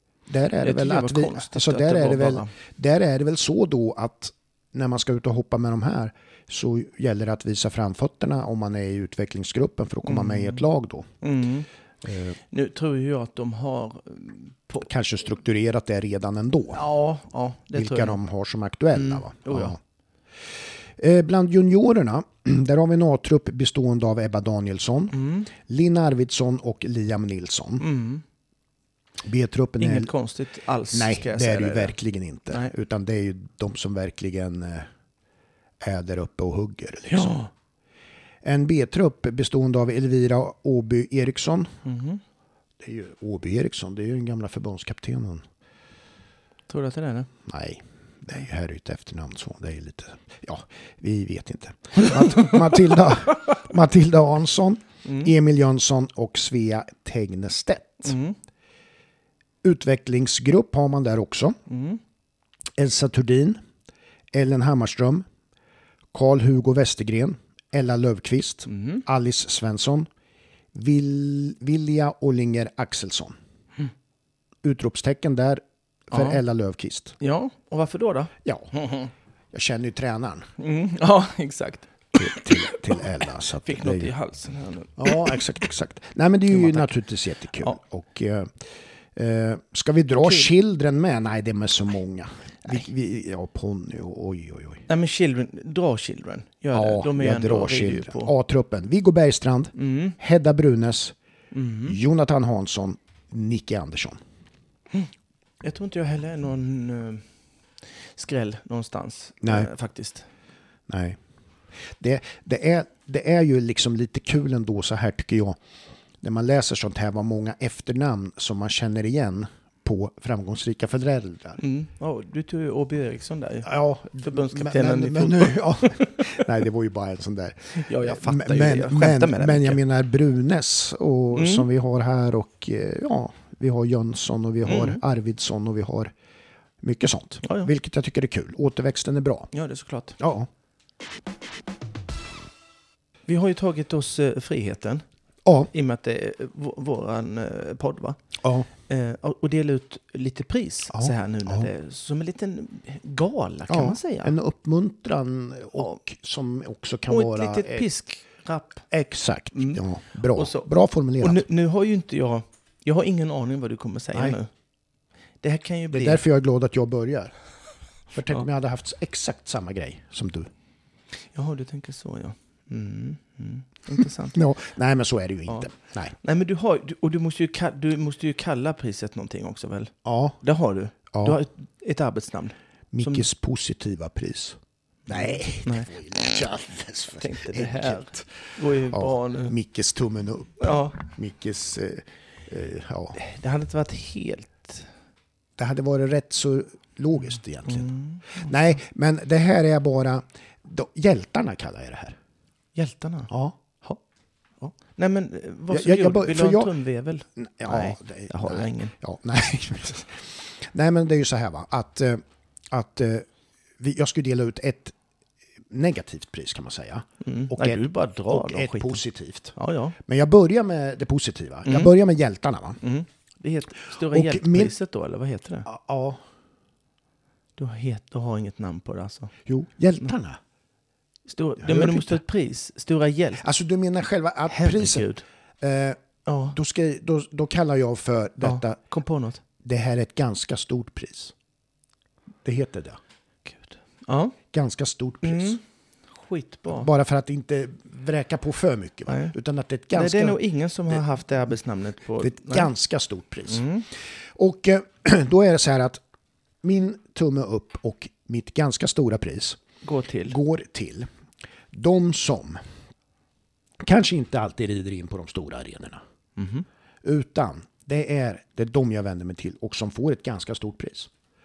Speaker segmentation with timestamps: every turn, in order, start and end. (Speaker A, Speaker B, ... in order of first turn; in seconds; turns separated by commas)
Speaker A: 0.3-11.1, Speaker B: 0.6-2.5, Speaker B: 10.1-10.7, Speaker B: 11.2-11.7, Speaker A: 12.0-12.4, Speaker B: 12.5-14.9, Speaker A: 14.8-16.8, Speaker B: 16.7-18.2, Speaker A: 17.8-19.8, Speaker B: 18.9-19.8, Speaker A: 21.0-27.8, Speaker B: 25.1-25.5, Speaker B: 27.8-28.2, Speaker A: 29.2-30.1, Speaker B: 29.8-32.0, Speaker A: 30.9-34.9, Speaker A: 35.8-37.4, Speaker B: 37.1-37.5, Speaker A: 38.4-41.7, Speaker B: 41.9-42.2, Speaker A: 42.8-45.5, Speaker B: 46.7-47.3, Speaker A: 47.5-58.2, Speaker B: 55.0-55.3, Speaker B: 58.0-58.4, Speaker A: 59.6-61.6, Speaker B: 61.7-62.0, Speaker A: 62.8-63.6, Speaker A: 64.3-65.2, Speaker A: 66.1-70.1, Speaker B: 68.7-69.0, Speaker A: 70.7-73.3, Speaker A: 74.6-77.2, Speaker B: 76.1-76.4, Speaker B: 77.2-79.1, Speaker A: 78.4-78.7, Speaker A: 79.5-80.5, Speaker B: 80.6-85.5, Speaker A: 82.2-84.1, Speaker A: 85.0-94.8, Speaker B: 86.5-86.9, Speaker B: 90.2-90.5, Speaker B: 94.9-98.3, Speaker A: 96.7-101.2, Speaker B: 99.8-100.2, Speaker B: 101.5-102.0, Speaker A: 101.9-104.2, Speaker B: 105.6-107.2, Speaker B: 108.2-110.3, Speaker A: 109.4-109.7, Speaker A: 110.9-111.2, Speaker A: 112.0-115.6, Speaker A: 116.2-121.6, Speaker B: 121.6-123.7, Speaker A: 123.6-136.1, Speaker B: 124.2-126.3, Speaker B: 127.7-129.8, Speaker B: 131.3-131.7, Speaker B: 134.7-135.0, Speaker A: 136.8-139.5, Speaker B: 137.4-137.7, Speaker B: 139.5-140.2, Speaker A: 140.2-140.5, Speaker B: 143.3-145.0, Speaker A: 145.4-145.7, Speaker B: 145.7-148.2, Speaker A: 148.4-148.7, Speaker B: 148.9-154.3, Speaker A: 150.9-151.7, Speaker A: 153.7-157.9, Speaker B: 157.1-158.9, Speaker A: 158.9-161.4, Speaker B: 159.6-159.8, Speaker B: 160.3-160.7, Speaker B: 161.2-164.5, Speaker B: 165.4-166.2, Speaker A: 165.9-167.3, Speaker A: 168.1-170.5, Speaker B: 171.3-174.4, Speaker A: 174.3-176.2, Speaker B: 176.2-183.3, Speaker A: 180.1-180.4, Speaker A: 181.1-181.4, Speaker A: 182.9-188.3, Speaker B: 185.1-185.9, Speaker B: 187.2-189.6, Speaker A: 188.9-193.2, Speaker B: 190.6-191.0, Speaker B: 193.2-194.9, Speaker A: 195.6-202.2, Speaker B: 197.7-198.5, Speaker B: 202.8-203.3, Speaker A: 203.3-203.6, Speaker B: 204.6-208.9, Speaker A: 205.7-206.7, Speaker A: 207.4-213.3, Speaker A: 213.8-214.9, Speaker A: 215.7-222.8, Speaker B: 217.2-219.0, Speaker B: 219.6-220.0, Speaker B: 221.7-221.9, Speaker B: 222.8-225.7, Speaker A: 224.0-224.7, Speaker A: 225.7-226.2, Speaker B: 227.6-229.3, Speaker A: 229.5-230.4, Speaker B: 231.3-233.4, Speaker A: 231.6-232.2, Speaker A: 233.4-235.1, Speaker B: 234.5-235.2, Speaker A: 235.6-236.0, Speaker B: 236.2-236.6, Speaker A: 236.5-238.8, Speaker B: 238.4-239.4, Speaker A: 239.6-241.3, Speaker A: 242.4-243.0, Speaker B: 243.4-244.4, Speaker A: 244.5-245.6, Speaker B: 245.2-246.9, Speaker A: 246.7-250.4, Speaker B: 249.1-249.3, Speaker B: 249.9-252.7, Speaker A: 252.2-253.7, Speaker B: 253.5-253.9, Speaker A: 254.2-256.0, Speaker A: 256.6-259.6, Speaker B: 259.8-260.4, Speaker A: 260.3-261.1, Speaker A: 261.7-262.6, Speaker A: 263.8-266.0, Speaker B: 266.4-266.6, Speaker A: 267.0-271.1